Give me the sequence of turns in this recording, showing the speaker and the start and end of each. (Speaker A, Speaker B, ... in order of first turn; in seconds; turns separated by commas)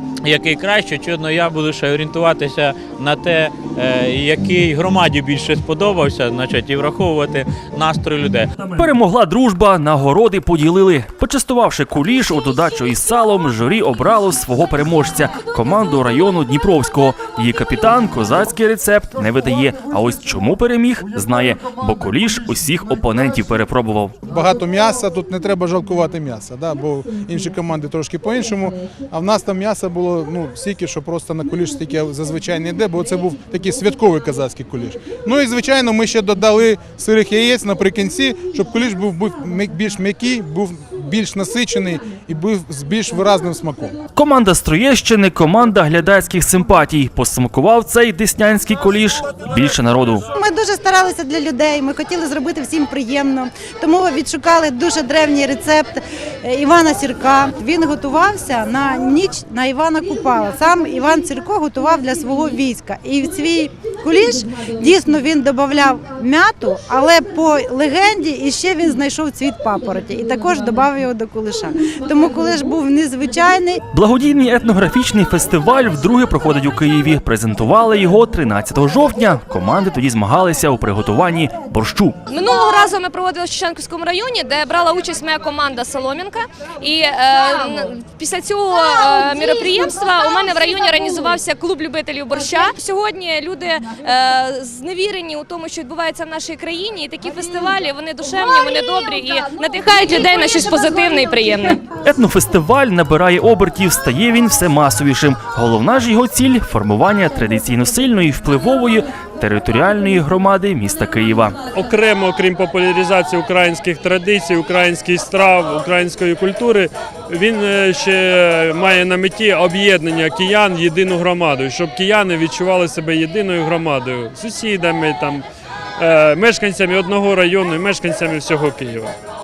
Speaker A: 0.2-8.5, Speaker B: 8.7-24.1, Speaker C: 24.2-43.9, Speaker B: 44.1-50.2, Speaker D: 50.3-73.8, Speaker B: 73.9-82.1, Speaker E: 82.3-101.8, Speaker B: 102.0-111.6, Speaker F: 111.7-125.4, Speaker F: 126.0-129.1